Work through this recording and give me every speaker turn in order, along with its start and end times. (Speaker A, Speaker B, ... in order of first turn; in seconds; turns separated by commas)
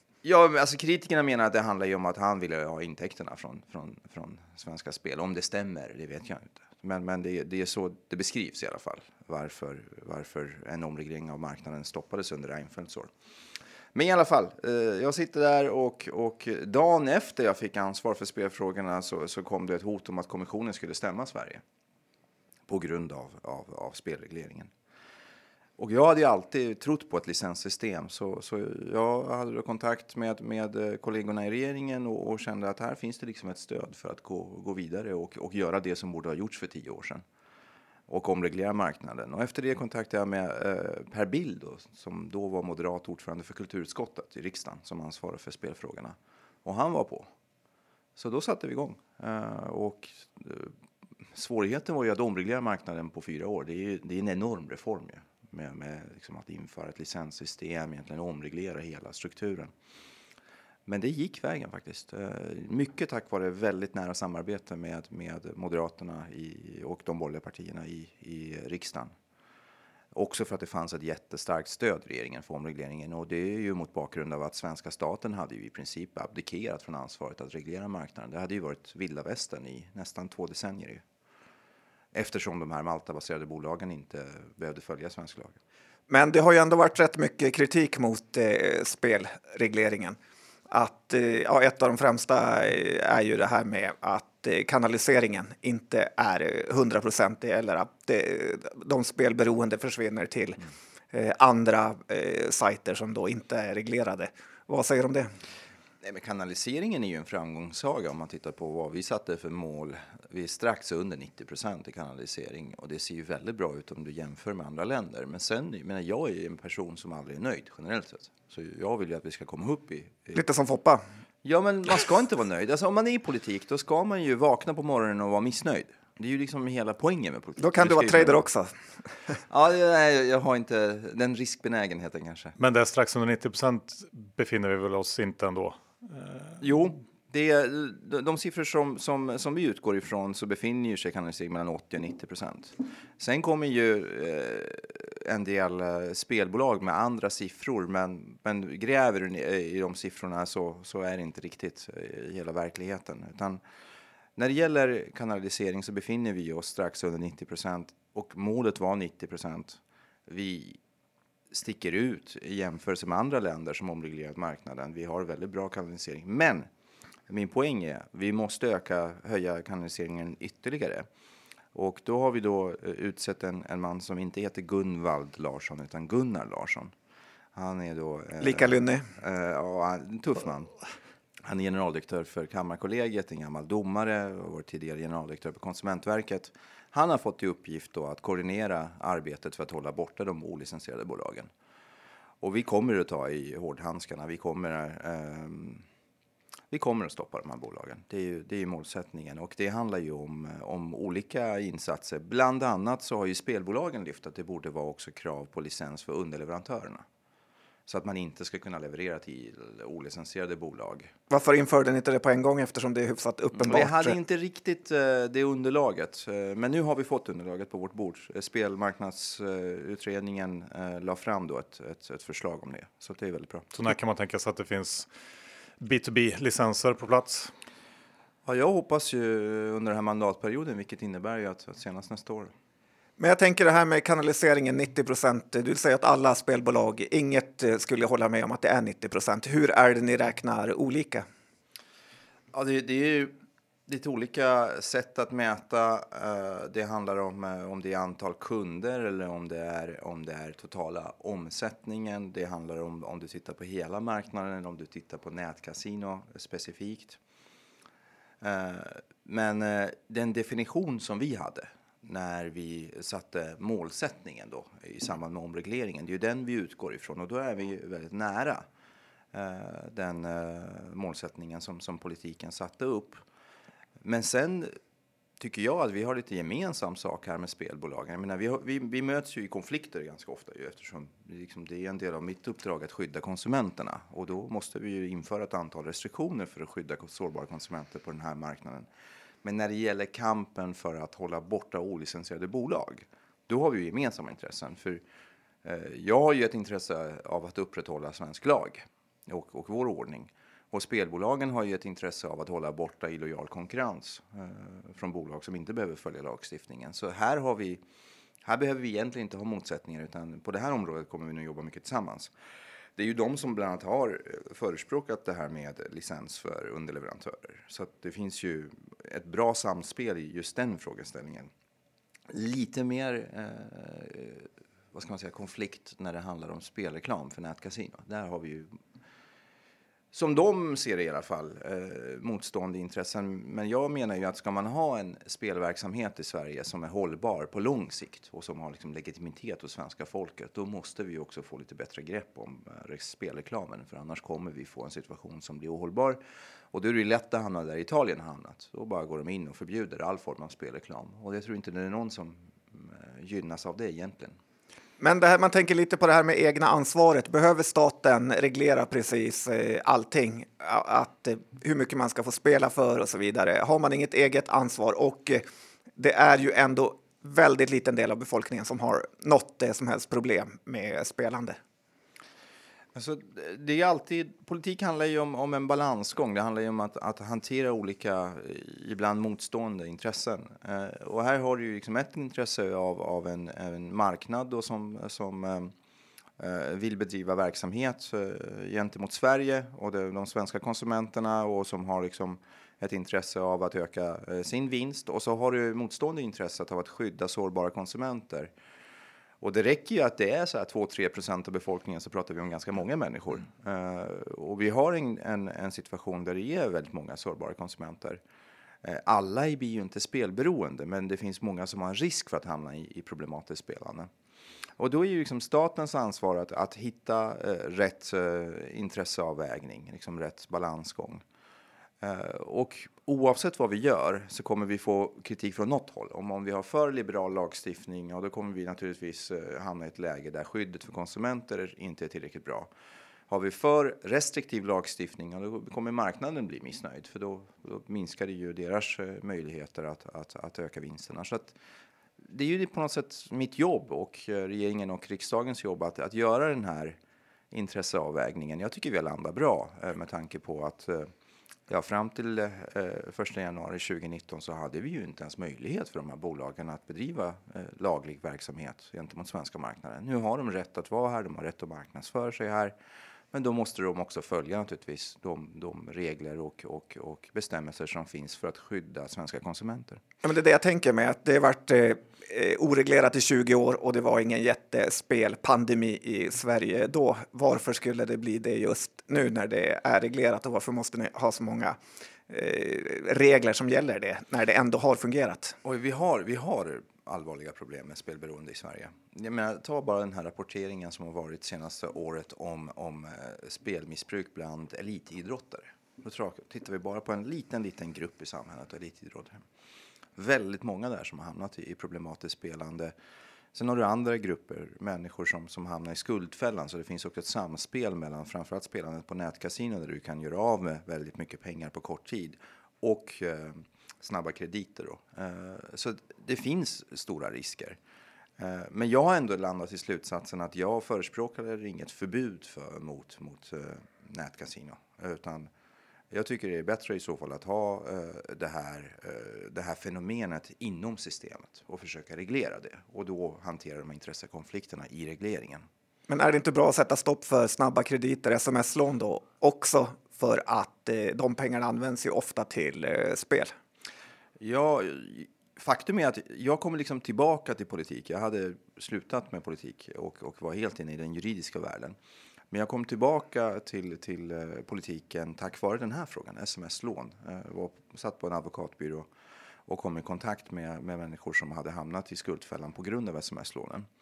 Speaker A: 0.2-13.1, Speaker A: 13.9-21.6, Speaker A: 22.7-24.7, Speaker A: 25.8-37.2, Speaker A: 38.1-47.3, Speaker A: 48.1-50.7, Speaker A: 51.3-59.7, Speaker A: 60.9-69.1, Speaker A: 70.1-81.0, Speaker A: 82.1-85.6, Speaker B: 86.1-90.2, Speaker B: 90.7-100.6, Speaker B: 101.1-105.3, Speaker A: 106.0-120.4, Speaker B: 120.3-121.0, Speaker A: 121.4-128.4, Speaker B: 127.6-128.7, Speaker A: 129.5-132.5, Speaker C: 132.6-136.6, Speaker A: 136.6-153.6, Speaker A: 154.3-160.8, Speaker A: 161.5-166.7, Speaker A: 167.3-171.1, Speaker A: 171.7-176.9, Speaker A: 177.5-180.7, Speaker B: 178.4-179.1, Speaker A: 181.4-191.5, Speaker A: 192.4-195.8, Speaker A: 196.7-207.1, Speaker A: 207.9-211.1, Speaker B: 211.3-214.2, Speaker A: 213.6-223.7, Speaker C: 223.7-225.1, Speaker C: 225.8-227.5, Speaker A: 228.4-232.5, Speaker B: 233.2-241.2, Speaker A: 242.5-243.3, Speaker A: 243.9-257.2, Speaker A: 258.4-268.6, Speaker A: 269.3-273.2, Speaker A: 274.0-274.7, Speaker A: 275.4-288.9, Speaker A: 289.4-295.0, Speaker A: 295.6-307.8, Speaker A: 308.4-312.3, Speaker A: 312.9-321.5, Speaker A: 322.3-328.7, Speaker A: 330.1-346.2, Speaker A: 346.7-354.4, Speaker B: 355.0-365.4, Speaker B: 366.0-371.6, Speaker A: 372.9-385.7, Speaker A: 386.4-398.5, Speaker A: 399.4-408.2, Speaker A: 408.8-414.1, Speaker A: 414.8-421.2, Speaker A: 422.0-432.7, Speaker A: 433.3-441.6, Speaker A: 442.2-447.0, Speaker A: 447.5-451.1, Speaker A: 451.7-462.7, Speaker A: 463.3-470.0, Speaker B: 470.2-481.8, Speaker B: 482.3-485.5, Speaker A: 485.6-499.4, Speaker A: 500.1-502.9, Speaker A: 503.5-517.8, Speaker A: 518.4-525.5, Speaker A: 526.1-535.6, Speaker B: 536.1-543.5, Speaker A: 544.4-552.0, Speaker A: 552.5-559.1, Speaker A: 559.7-563.9